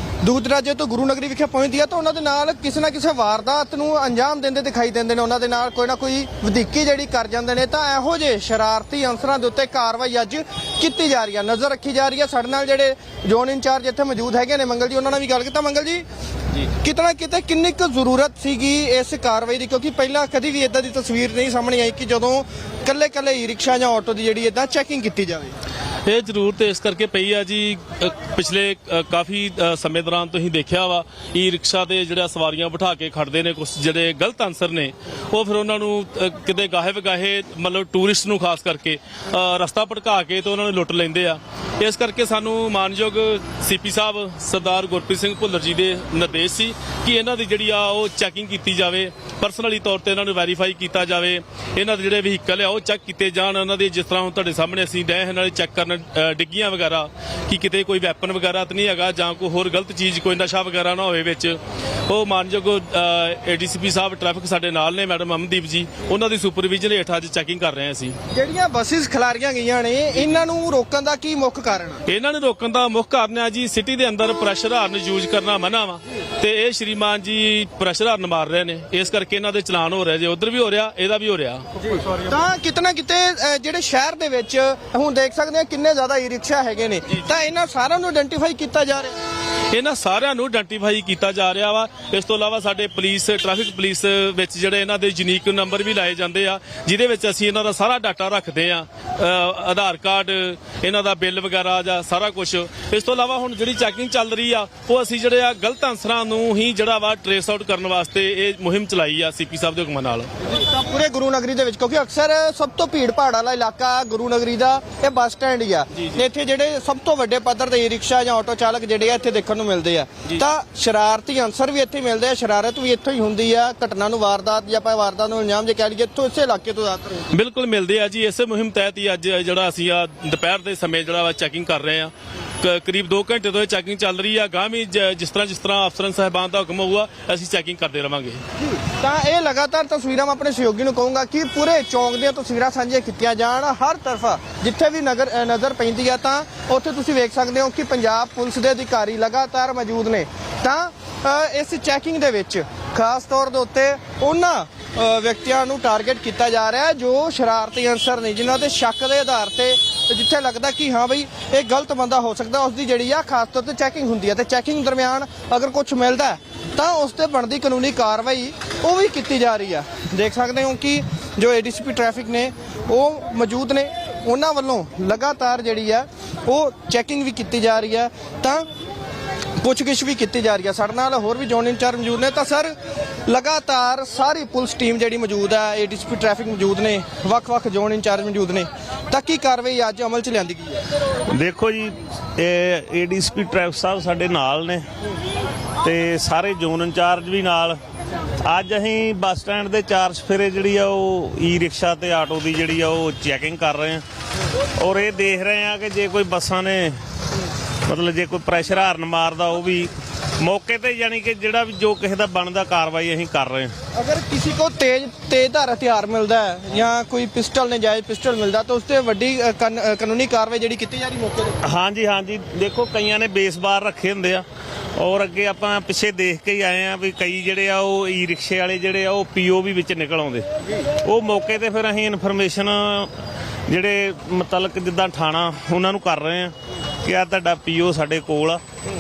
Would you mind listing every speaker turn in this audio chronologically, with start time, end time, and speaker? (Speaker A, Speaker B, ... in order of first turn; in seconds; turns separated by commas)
Speaker A: 0.2-16.1, Speaker A: 16.6-25.5, Speaker B: 26.1-68.2, Speaker A: 68.3-72.0, Speaker B: 72.1-81.7, Speaker A: 82.2-89.2, Speaker B: 89.7-110.3, Speaker A: 110.5-127.3, Speaker B: 127.3-138.4, Speaker A: 138.8-178.7, Speaker A: 179.6-182.7, Speaker A: 183.3-190.8, Speaker C: 191.3-194.8, Speaker C: 195.8-197.8, Speaker C: 198.4-204.0, Speaker C: 204.8-207.0, Speaker C: 207.9-213.7, Speaker A: 213.9-221.6, Speaker C: 221.6-224.4, Speaker C: 225.0-230.5, Speaker C: 231.0-233.1, Speaker C: 233.7-236.5, Speaker C: 237.0-238.6